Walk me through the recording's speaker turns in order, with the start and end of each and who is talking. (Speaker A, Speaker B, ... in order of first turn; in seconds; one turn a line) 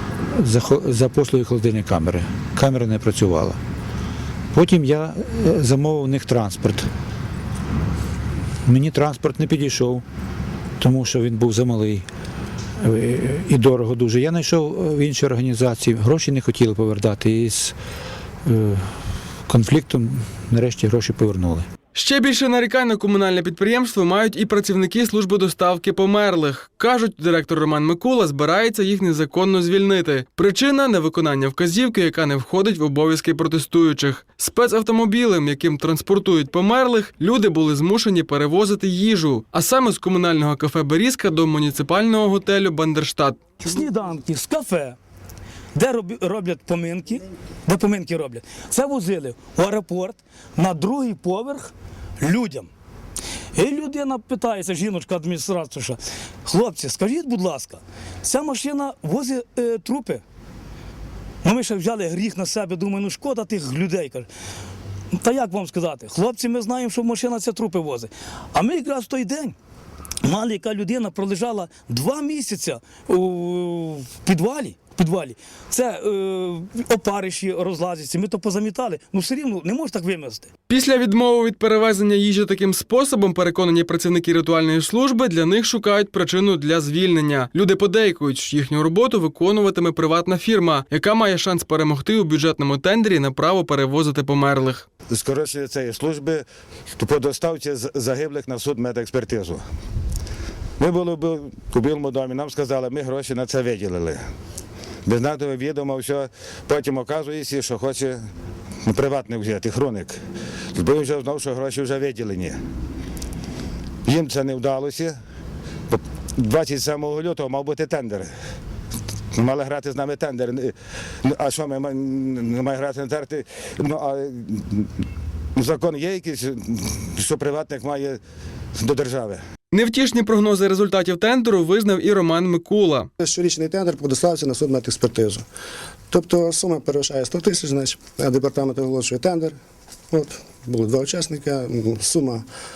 Speaker A: 0.3-3.6
Speaker A: 4.5-6.9
Speaker A: 8.7-10.0
Speaker A: 10.8-12.1
Speaker A: 12.8-17.8
Speaker A: 18.4-18.9
Speaker A: 19.5-21.6
Speaker B: 21.9-43.6
Speaker C: 43.6-45.0
Speaker C: 45.7-52.7
Speaker C: 53.5-60.2
Speaker C: 61.4-64.3
Speaker C: 65.1-69.6
Speaker C: 70.2-80.5
Speaker B: 80.7-94.9
Speaker D: 95.1-96.5
Speaker D: 97.0-99.6
Speaker D: 100.8-104.2
Speaker D: 105.1-108.2
Speaker D: 108.8-110.2
Speaker D: 110.8-112.6
Speaker D: 114.1-115.2
Speaker D: 115.9-118.3
Speaker D: 119.3-120.7
Speaker D: 121.2-124.9
Speaker D: 125.6-128.2
Speaker D: 128.8-129.4
Speaker B: 129.7-133.1
Speaker E: 133.2-135.4
Speaker E: 136.1-139.6
Speaker E: 140.1-142.4